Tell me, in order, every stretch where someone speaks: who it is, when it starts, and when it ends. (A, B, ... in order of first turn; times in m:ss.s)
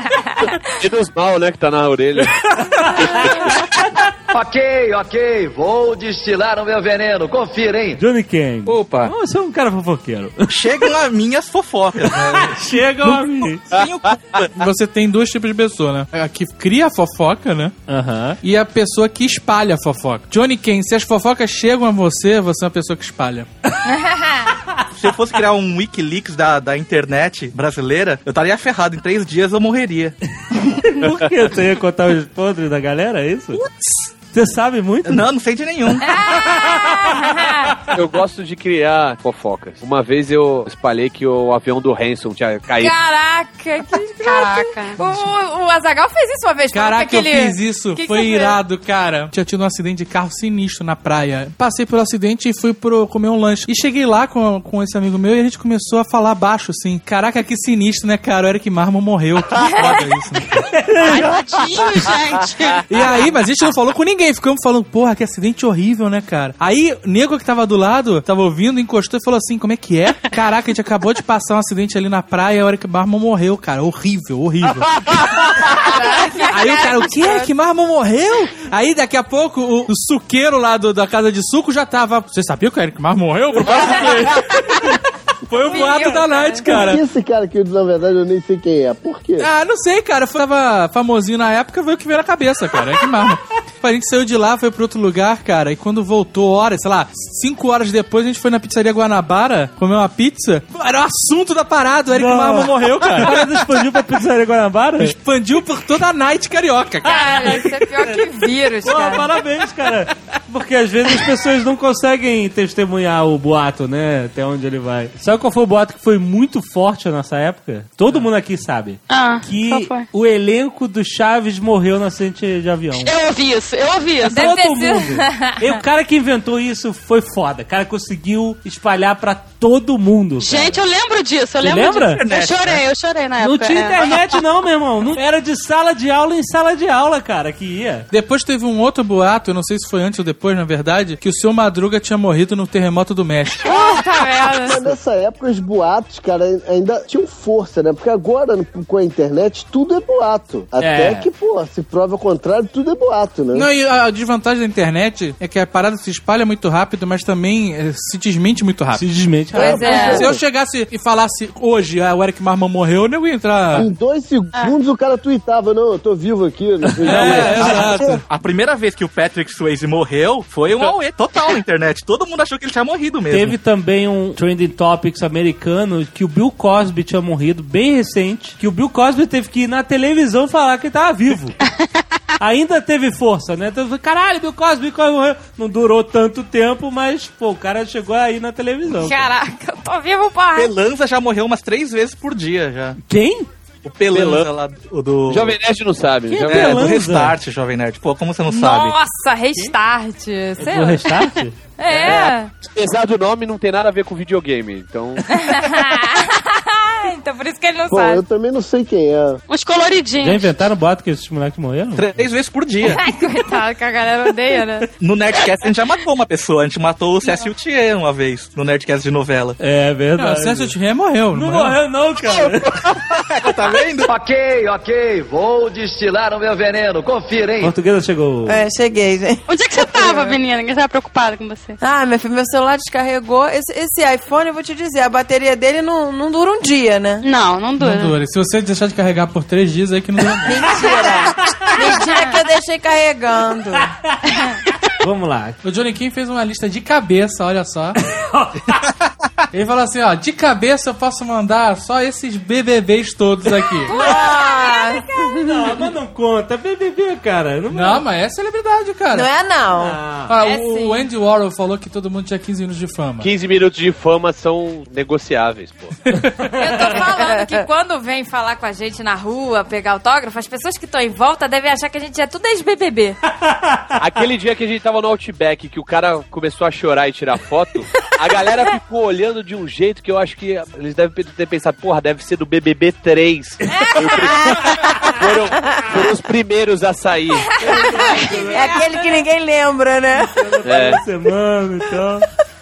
0:00.7-0:03.4 A
0:02.6-0:04.1 B
0:04.3-0:08.0 C
0:08.0-0:10.5 B
0:08.7-0:09.1 D
0:10.5-0:14.6 D
0:12.1-0:13.7 B
0:14.6-0:17.8 E
0:17.9-0:18.4 B
0:18.4-0:23.5 E
0:23.9-0:24.5 F
0:25.0-0:30.2 D
0:30.5-0:33.6 B
0:34.3-0:35.3 B
0:35.0-0:36.2 D
0:36.0-0:37.8 F
0:37.9-0:42.9 A
0:42.8-0:48.6 F
0:44.2-0:45.0 G
0:46.7-1:00.8 E
1:00.7-1:01.3 B
1:01.0-1:02.8 G
1:02.9-1:15.0 E
1:15.5-1:17.5 F
1:16.5-1:27.0 E
1:23.7-1:24.3 F
1:25.6-1:26.7 F
1:26.7-1:29.5 H
1:29.4-1:43.8 E
1:42.1-1:45.2 B
1:45.0-1:47.6 E
1:47.0-1:49.3 F
1:47.2-1:48.3 B
1:48.8-2:03.2 B
1:59.1-2:00.1 G
2:03.0-2:04.4 G
2:04.2-2:10.8 B
2:04.3-2:05.8 F
2:10.4-2:14.2 G
2:11.6-2:12.3 B
2:12.1-2:12.9 D
2:13.4-2:18.1 B
2:18.1-2:23.6 E
2:23.6-2:24.8 F
2:23.7-2:24.8 I
2:24.6-2:33.7 H
2:30.8-2:31.3 B
2:33.5-2:39.0 E
2:39.0-2:40.1 B
2:39.5-2:40.3 F
2:39.6-2:40.4 H
2:39.9-2:43.9 E
2:43.7-2:48.2 H
2:47.1-2:48.2 E
2:47.1-2:53.6 D
2:53.3-3:01.6 B
3:02.4-3:09.3 B
3:09.0-3:10.7 F
3:10.6-3:13.0 D
3:13.0-3:13.5 B
3:13.8-3:15.6 D
3:14.1-3:14.5 A
3:15.3-3:16.9 A
3:16.3-3:17.4 B
3:16.5-3:19.0 D
3:18.5-3:21.2 F
3:20.6-3:21.6 B
3:21.8-3:22.5 F
3:21.9-3:25.3 A
3:25.3-3:28.2 F
3:27.9-3:29.4 H
3:29.5-3:30.7 G
3:30.2-3:32.2 B
3:32.0-3:33.0 D
3:32.8-3:34.9 F
3:35.0-3:39.6 D
3:39.6-3:40.8 B
3:40.2-3:41.8 E
3:41.3-3:43.0 B
3:42.8-3:44.1 D
3:44.1-3:47.7 C
3:47.6-3:48.6 B
3:48.5-3:50.4 I
3:49.5-3:51.8 G
3:51.8-3:57.3 I
3:57.2-3:58.2 G
3:57.8-4:00.9 E
4:00.4-4:03.9 I
4:03.8-4:04.4 B
4:05.0-4:05.6 B
4:05.6-4:08.0 E
4:08.1-4:08.9 B
4:09.5-4:13.9 E
4:13.9-4:15.4 F
4:13.9-4:15.8 I
4:15.4-4:18.0 B
4:17.7-4:19.3 E
4:19.1-4:20.0 I
4:19.8-4:20.3 B
4:20.3-4:23.3 E
4:20.4-4:21.1 F
4:23.2-4:26.0 A
4:26.6-4:33.2 F
4:27.2-4:27.6 I
4:33.5-4:33.8 B
4:34.0-4:47.5 A
4:44.2-4:44.6 I
4:47.6-4:48.9 B
4:47.6-4:49.0 F
4:47.8-4:50.6 I
4:50.3-4:52.3 B
4:50.6-4:51.0 A